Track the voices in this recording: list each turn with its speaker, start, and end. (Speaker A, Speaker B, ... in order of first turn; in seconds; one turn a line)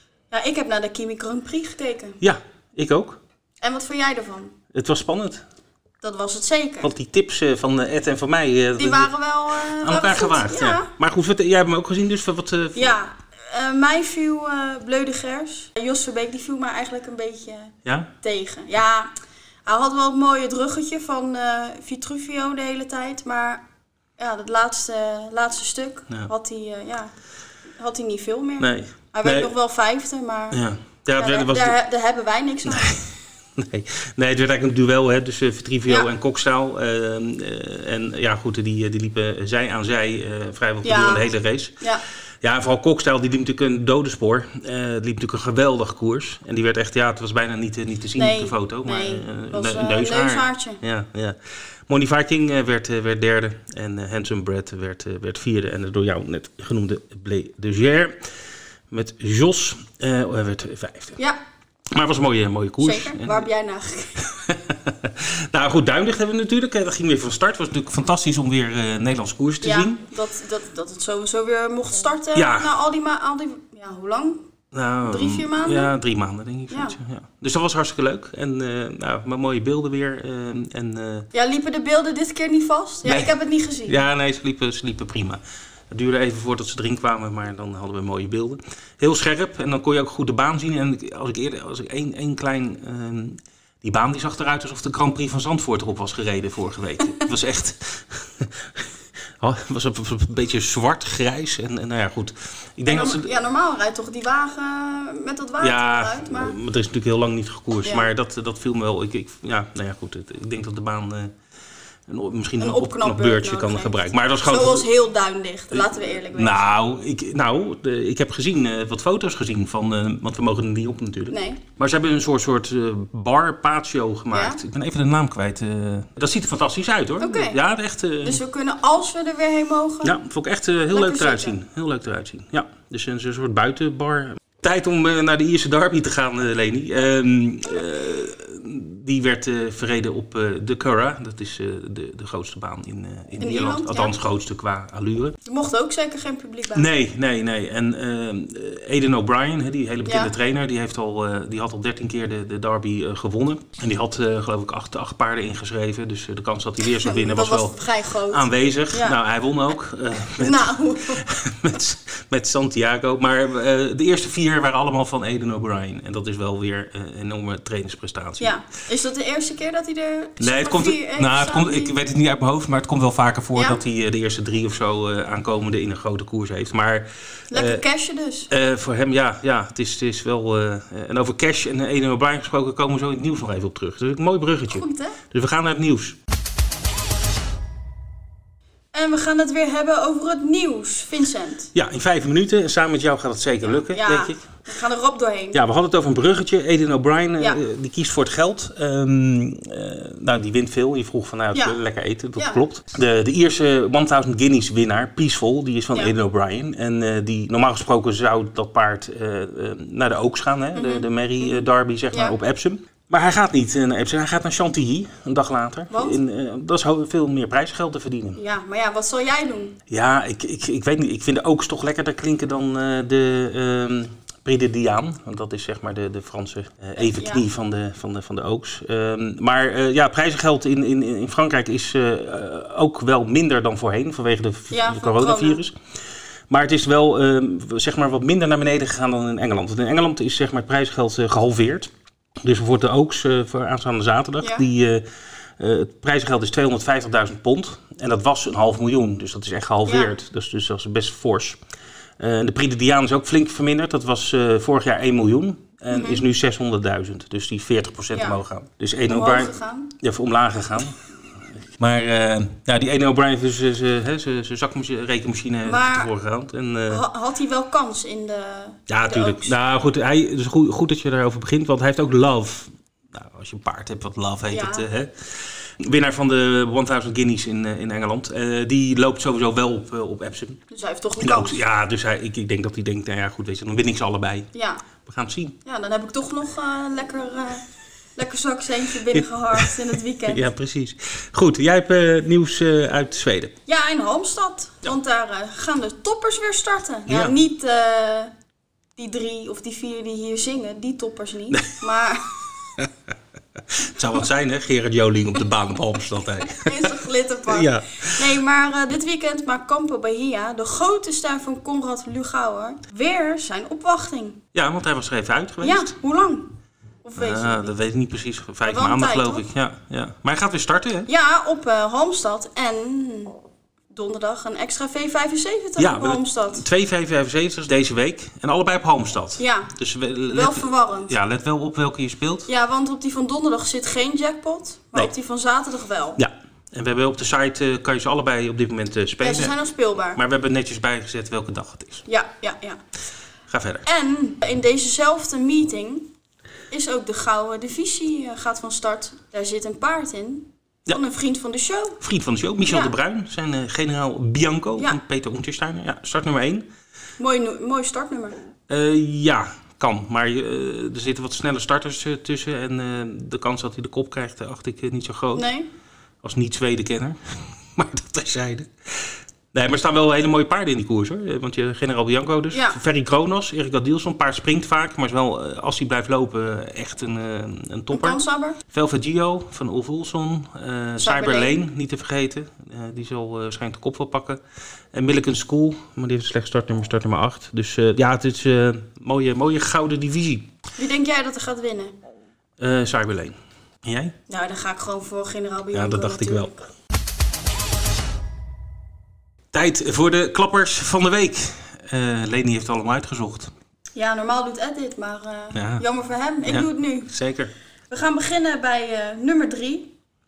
Speaker A: 0.3-2.2
Speaker B: 2.2-3.2
Speaker A: 3.6-4.5
Speaker B: 4.7-5.4
Speaker A: 6.0-6.9
Speaker B: 6.8-13.0
Speaker A: 8.8-10.9
Speaker A: 12.8-19.1
Speaker B: 17.8-18.1
Speaker A: 19.6-23.7
Speaker A: 24.2-27.2
Speaker A: 27.7-33.0
Speaker B: 28.6-29.5
Speaker B: 30.5-31.8
Speaker B: 32.6-41.9
Speaker A: 40.8-42.0
Speaker B: 42.4-58.4
Speaker A: 48.2-50.8
Speaker B: 58.9-61.2
Speaker B: 61.9-63.5
Speaker A: 62.8-64.2
Speaker B: 64.2-70.0
Speaker A: 69.6-74.5
Speaker B: 72.3-72.7
Speaker B: 74.7-81.3
Speaker A: 75.0-75.9
Speaker A: 76.7-77.0
Speaker A: 81.3-84.0
Speaker B: 83.0-103.3
Speaker A: 102.9-106.5
Speaker B: 105.6-111.4
Speaker A: 107.8-108.1
Speaker B: 112.1-114.9
Speaker A: 112.6-116.7
Speaker B: 115.7-128.4
Speaker A: 121.3-121.6
Speaker A: 124.3-124.6
Speaker A: 127.2-127.6
Speaker A: 128.2-130.2
Speaker B: 130.0-145.4
Speaker A: 130.9-131.6
Speaker A: 143.4-144.1
Speaker A: 145.4-146.9
Speaker B: 146.7-168.5
Speaker A: 150.1-150.3
Speaker A: 156.9-159.2
Speaker A: 160.4-161.2
Speaker A: 168.4-171.9
Speaker B: 170.4-177.8
Speaker A: 173.6-173.8
Speaker A: 177.5-178.5
Speaker B: 178.5-186.2
Speaker A: 184.7-185.2
Speaker A: 188.9-191.7
Speaker B: 191.7-194.5
Speaker A: 193.6-195.6
Speaker B: 195.5-218.4
Speaker A: 201.5-201.8
Speaker A: 202.4-202.6
Speaker A: 210.7-211.6
Speaker A: 215.9-216.2
Speaker A: 218.4-219.8
Speaker B: 219.9-251.6
Speaker A: 227.0-227.4
Speaker A: 234.7-235.6
Speaker A: 249.8-250.1
Speaker B: 252.2-267.0
Speaker A: 255.9-256.2
Speaker A: 258.1-258.4
Speaker A: 259.1-259.9
Speaker A: 265.6-266.1
Speaker A: 266.9-269.6
Speaker B: 268.9-280.6
Speaker A: 274.5-274.9
Speaker A: 280.7-281.6
Speaker B: 281.2-285.6
Speaker A: 284.5-284.8
Speaker A: 285.6-290.4
Speaker B: 289.1-289.7
Speaker B: 290.2-293.6
Speaker A: 293.7-298.3
Speaker B: 297.1-297.4
Speaker A: 299.0-302.3
Speaker B: 303.7-306.9
Speaker A: 306.5-314.4
Speaker B: 307.5-308.3
Speaker B: 314.5-316.0
Speaker A: 315.6-317.7
Speaker B: 317.2-321.1
Speaker A: 318.6-319.4
Speaker A: 321.1-323.4
Speaker A: 323.9-326.7
Speaker B: 325.8-332.5
Speaker A: 329.4-329.7
Speaker A: 330.3-331.1
Speaker A: 332.5-336.2
Speaker B: 336.2-339.6
Speaker A: 339.2-340.2
Speaker B: 340.1-342.1
Speaker A: 342.1-342.8
Speaker B: 343.5-343.9
Speaker A: 343.9-346.1
Speaker A: 346.7-352.0
Speaker B: 352.0-356.7
Speaker A: 352.6-352.9
Speaker A: 357.2-358.4
Speaker B: 358.7-365.5
Speaker A: 365.3-365.7
Speaker B: 366.2-384.4
Speaker A: 372.5-372.8
Speaker A: 377.9-378.6
Speaker A: 381.0-381.6
Speaker B: 384.9-390.6
Speaker A: 390.8-392.0
Speaker B: 392.6-394.1
Speaker A: 394.3-396.6
Speaker B: 395.7-396.6
Speaker B: 399.5-403.5
Speaker A: 403.9-407.1
Speaker B: 405.5-405.9
Speaker B: 406.4-407.5
Speaker A: 407.9-409.9